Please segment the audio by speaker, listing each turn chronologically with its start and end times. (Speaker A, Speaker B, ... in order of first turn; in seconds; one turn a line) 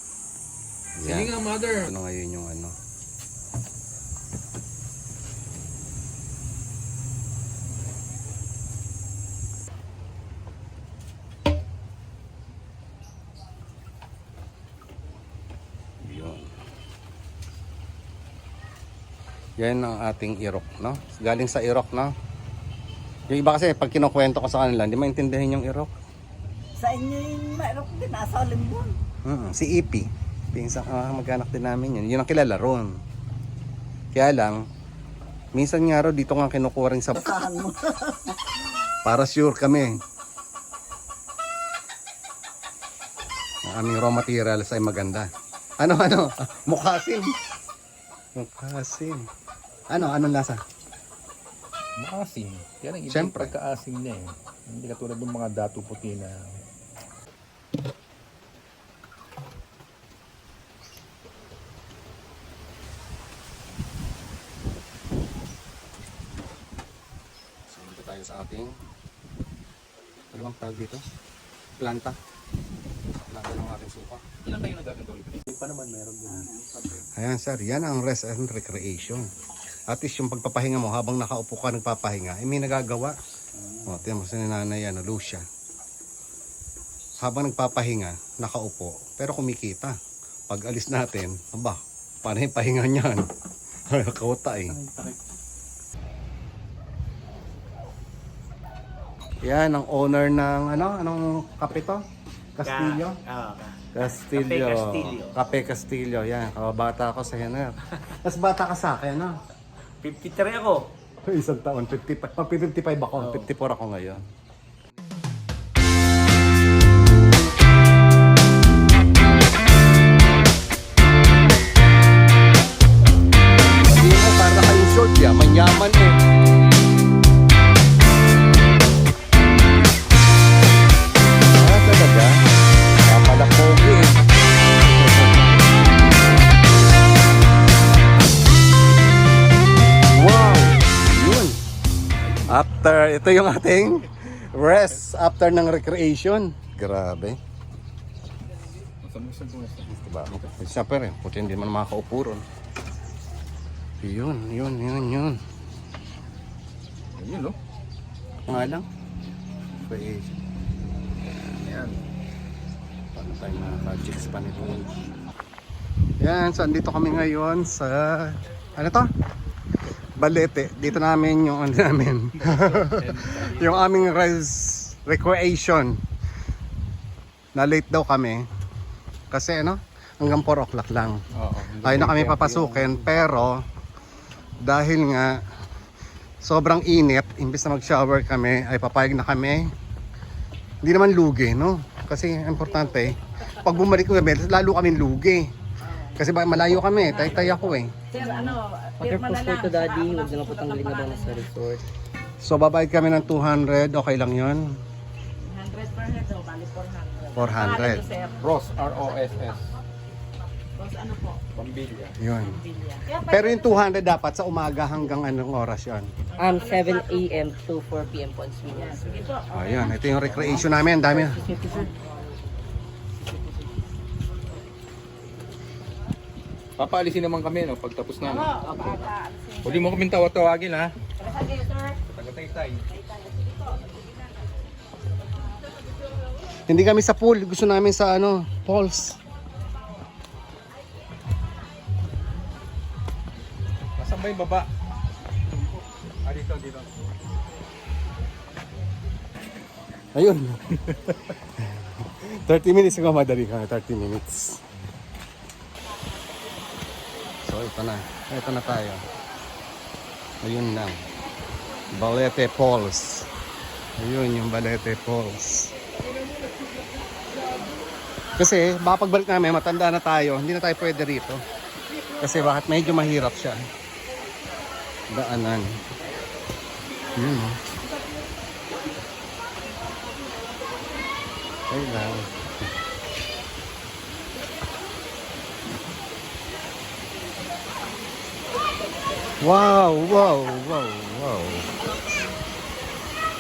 Speaker A: 1.0-2.8
Speaker B: 1.0-1.9
Speaker A: 16.0-16.5
Speaker A: 19.6-22.1
Speaker A: 23.3-25.9
Speaker C: 26.8-28.9
Speaker A: 29.2-33.0
Speaker A: 34.1-34.7
Speaker A: 35.5-37.4
Speaker C: 37.1-38.4
Speaker A: 39.0-40.0
Speaker A: 43.6-47.3
Speaker A: 48.4-49.3
Speaker A: 49.9-50.6
Speaker B: 52.0-56.5
Speaker A: 53.1-53.5
Speaker A: 67.7-68.7
Speaker B: 70.3-70.7
Speaker A: 70.3-71.0
Speaker A: 71.8-72.2
Speaker A: 73.3-74.2
Speaker B: 74.4-76.5
Speaker A: 77.1-79.3
Speaker A: 79.9-83.2
Speaker A: 83.9-85.5
Speaker A: 87.2-90.0
Speaker A: 90.5-93.3
Speaker A: 93.9-94.8
Speaker D: 94.8-95.1
Speaker A: 99.4-102.0
Speaker A: 102.6-103.2
Speaker D: 102.6-105.3
Speaker A: 103.9-109.4
Speaker D: 110.0-110.8
Speaker A: 111.2-114.2
Speaker D: 113.2-113.5
Speaker A: 123.8-126.2
Speaker A: 131.6-132.5
Speaker A: 133.0-134.2
Speaker A: 134.8-135.4
Speaker A: 140.1-141.6
Speaker B: 142.2-142.5
Speaker A: 142.5-147.4
Speaker B: 149.0-150.6
Speaker A: 149.9-152.4
Speaker A: 154.0-155.4
Speaker B: 157.2-157.6
Speaker A: 158.5-158.9
Speaker A: 159.8-160.4
Speaker B: 161.6-162.0
Speaker A: 163.2-164.9
Speaker A: 166.2-169.1
Speaker A: 170.2-176.0
Speaker B: 172.4-174.1
Speaker A: 177.6-178.4
Speaker A: 179.3-181.2
Speaker B: 181.4-183.2
Speaker A: 181.8-183.6
Speaker A: 184.6-185.4
Speaker A: 186.4-189.7
Speaker A: 190.8-195.5
Speaker E: 192.7-193.7
Speaker E: 195.8-196.3
Speaker A: 196.2-197.9
Speaker E: 196.9-201.5
Speaker F: 198.1-201.8
Speaker A: 202.4-204.7
Speaker E: 205.4-209.8
Speaker A: 207.3-208.1
Speaker B: 208.4-209.8
Speaker E: 210.8-211.4
Speaker B: 211.5-212.2
Speaker A: 212.2-212.6
Speaker E: 212.4-213.8
Speaker A: 213.2-216.1
Speaker E: 216.4-217.4
Speaker F: 216.4-219.4
Speaker E: 218.7-222.5
Speaker A: 219.5-221.4
Speaker F: 220.3-221.9
Speaker B: 226.8-228.7
Speaker E: 228.2-230.1
Speaker B: 229.6-230.9
Speaker E: 231.2-232.0
Speaker B: 232.2-232.8
Speaker E: 232.9-234.5
Speaker A: 236.7-239.2
Speaker B: 244.0-244.7
Speaker B: 246.2-246.9
Speaker A: 250.2-250.9
Speaker A: 251.6-254.6
Speaker A: 257.4-259.0
Speaker A: 260.4-261.0
Speaker A: 261.9-263.3
Speaker A: 264.0-265.7
Speaker A: 268.4-271.4
Speaker A: 272.2-273.6
Speaker A: 275.1-275.8
Speaker A: 277.1-277.6
Speaker A: 281.7-282.3
Speaker A: 289.4-291.7